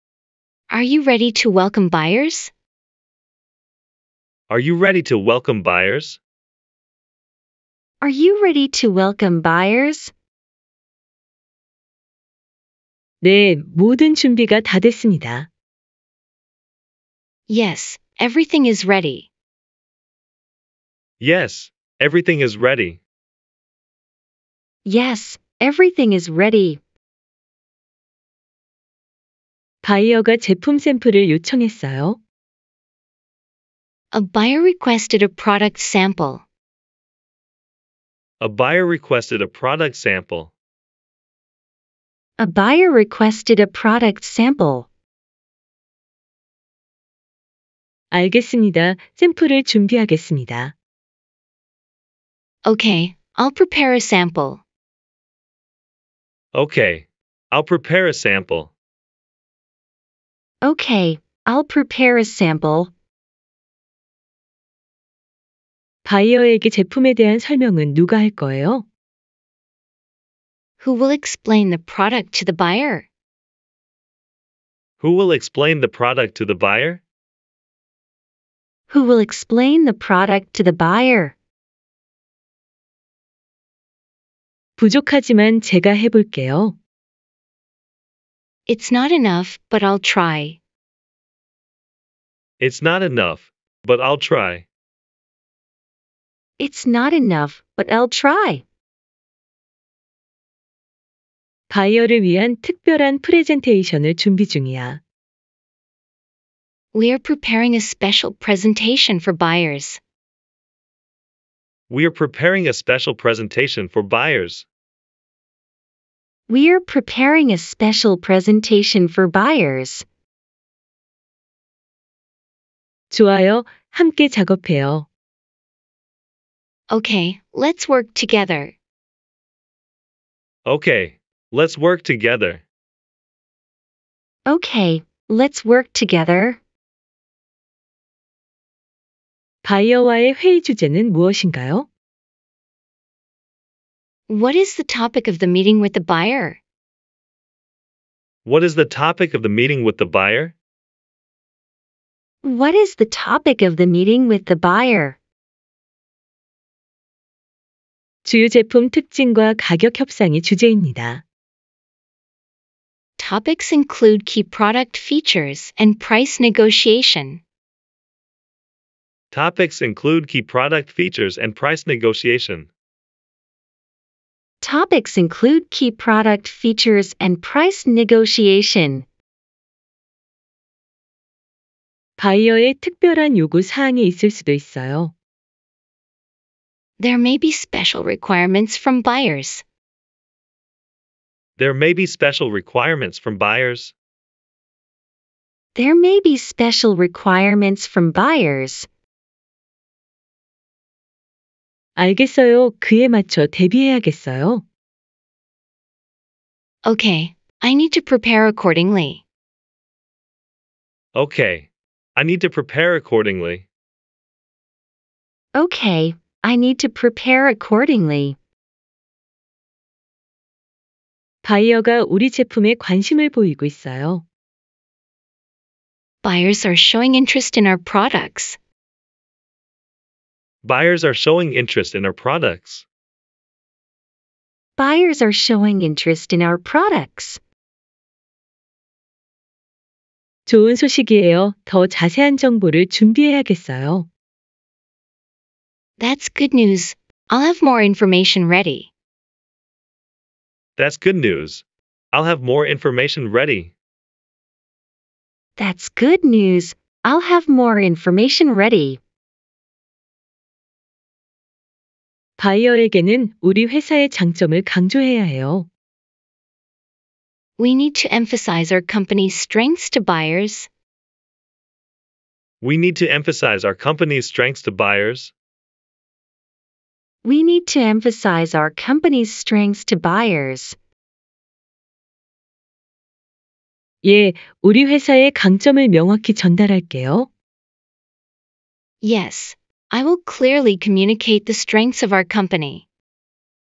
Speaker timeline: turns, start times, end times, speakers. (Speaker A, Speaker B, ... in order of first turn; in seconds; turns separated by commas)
Speaker A: 0.7-2.5, Speaker B: 4.5-6.2, Speaker C: 8.0-10.1, Speaker D: 13.2-15.5, Speaker A: 17.5-19.3, Speaker B: 21.2-23.0, Speaker C: 24.8-26.8, Speaker D: 29.8-32.2, Speaker A: 34.1-36.4, Speaker B: 38.4-40.5, Speaker C: 42.4-44.9, Speaker D: 48.1-50.7, Speaker A: 52.6-54.6, Speaker B: 56.5-58.7, Speaker C: 60.6-62.9, Speaker D: 66.0-68.8, Speaker A: 70.8-73.0, Speaker B: 75.0-77.0, Speaker C: 78.9-81.3, Speaker D: 84.8-86.8, Speaker A: 88.7-90.6, Speaker B: 92.6-94.7, Speaker C: 96.6-98.6, Speaker D: 101.7-105.0, Speaker A: 106.9-110.0, Speaker B: 111.9-114.7, Speaker C: 116.5-120.0, Speaker D: 123.1-125.1, Speaker A: 126.9-128.7, Speaker B: 130.6-132.6, Speaker C: 134.5-136.6, Speaker D: 139.6-141.9, Speaker A: 144.3-146.6, Speaker B: 148.4-150.5, Speaker C: 152.4-155.2, Speaker D: 158.2-161.2, Speaker A: 163.2-167.4, Speaker B: 169.3-172.7, Speaker C: 174.6-179.1, Speaker D: 182.2-185.1, Speaker A: 187.0-189.6, Speaker B: 191.6-193.9, Speaker C: 195.8-198.9, Speaker D: 202.0-204.6, Speaker A: 206.8-209.2, Speaker B: 211.1-213.7, Speaker C: 215.5-218.4, Speaker D: 221.4-224.2, Speaker A: 226.2-228.6, Speaker B: 230.6-232.8, Speaker C: 234.8-237.4, Speaker D: 240.5-244.1, Speaker A: 246.0-248.9, Speaker B: 250.8-253.7, Speaker C: 255.6-259.0, Speaker D: 262.4-265.7, Speaker A: 267.6-270.7, Speaker B: 272.6-275.3, Speaker C: 277.2-280.8, Speaker D: 284.0-287.3, Speaker A: 289.0-292.8